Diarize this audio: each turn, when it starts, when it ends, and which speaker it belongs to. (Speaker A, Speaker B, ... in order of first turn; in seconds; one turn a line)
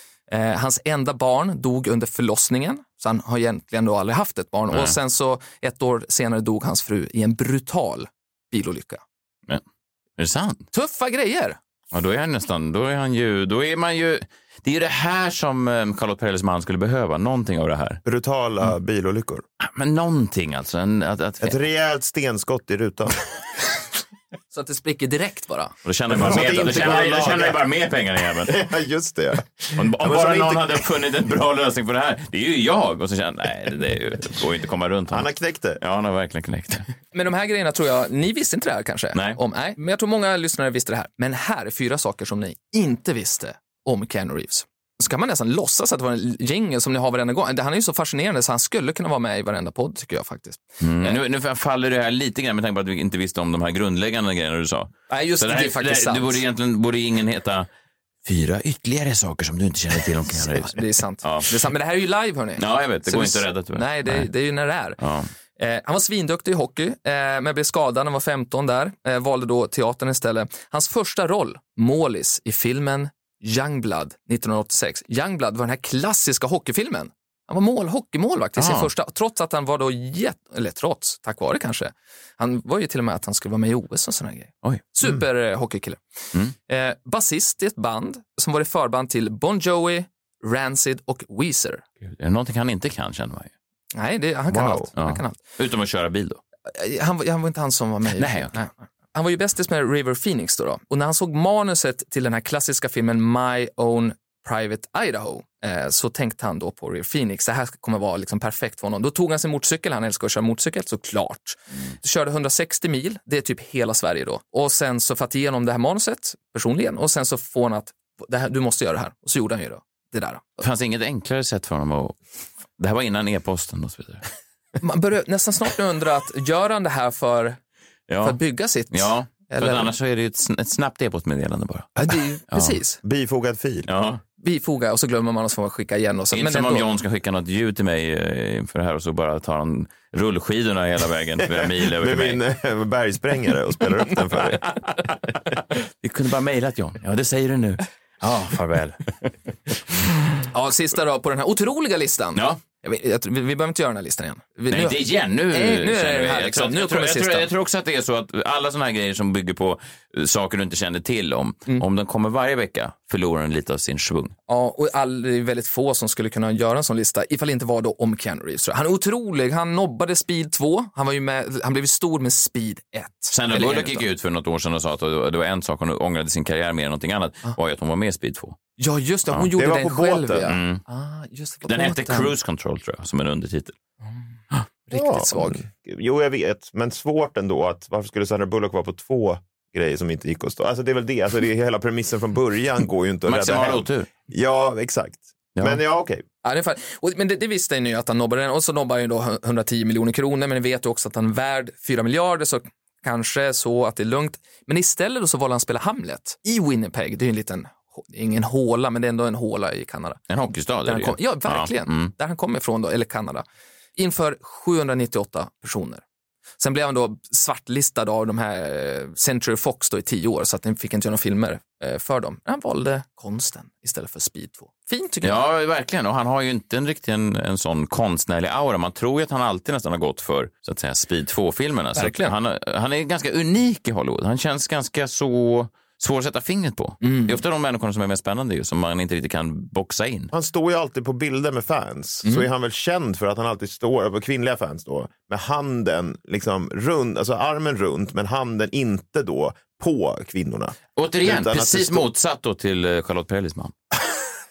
Speaker A: 0.3-9.0
Speaker B: 10.2-10.6
Speaker A: 10.7-11.6
Speaker B: 11.9-18.0
Speaker C: 18.0-19.4
Speaker B: 19.6-21.6
Speaker C: 21.4-23.1
Speaker A: 24.5-25.7
Speaker B: 25.8-28.6
Speaker C: 26.1-27.6
Speaker A: 26.4-26.7
Speaker C: 28.4-30.8
Speaker B: 29.7-35.3
Speaker C: 35.1-35.8
Speaker B: 35.8-36.9
Speaker A: 37.1-51.2
Speaker B: 39.1-39.4
Speaker B: 50.8-57.7
Speaker A: 55.1-56.4
Speaker B: 58.2-61.5
Speaker A: 60.4-65.0
Speaker B: 62.6-64.3
Speaker B: 65.0-65.3
Speaker A: 65.6-86.0
Speaker B: 78.6-78.9
Speaker A: 86.7-91.8
Speaker B: 92.0-93.5
Speaker A: 93.9-95.4
Speaker C: 94.5-94.9
Speaker B: 95.0-96.4
Speaker A: 96.7-120.6
Speaker B: 98.1-98.5
Speaker B: 120.6-122.2
Speaker B: 122.8-124.2
Speaker A: 124.8-127.6
Speaker B: 128.1-131.9
Speaker A: 128.2-129.9
Speaker A: 132.0-133.0
Speaker B: 132.5-132.8
Speaker C: 133.0-133.9
Speaker B: 133.9-134.2
Speaker A: 134.4-136.8
Speaker B: 136.3-142.4
Speaker C: 141.5-144.8
Speaker B: 146.0-149.2
Speaker A: 150.5-157.5
Speaker B: 152.3-152.6
Speaker B: 154.7-164.3
Speaker A: 164.5-174.1
Speaker B: 173.3-178.6
Speaker A: 178.8-182.3
Speaker C: 179.5-180.5
Speaker B: 180.4-180.8
Speaker B: 181.7-183.7
Speaker A: 184.9-185.6
Speaker C: 184.9-196.2
Speaker B: 193.3-194.1
Speaker A: 196.4-210.2
Speaker B: 210.3-212.1
Speaker A: 210.8-213.4
Speaker A: 214.0-216.0
Speaker A: 216.6-225.4
Speaker B: 225.2-240.3
Speaker A: 231.9-232.3
Speaker A: 237.0-237.4
Speaker C: 240.3-252.1
Speaker B: 251.0-253.7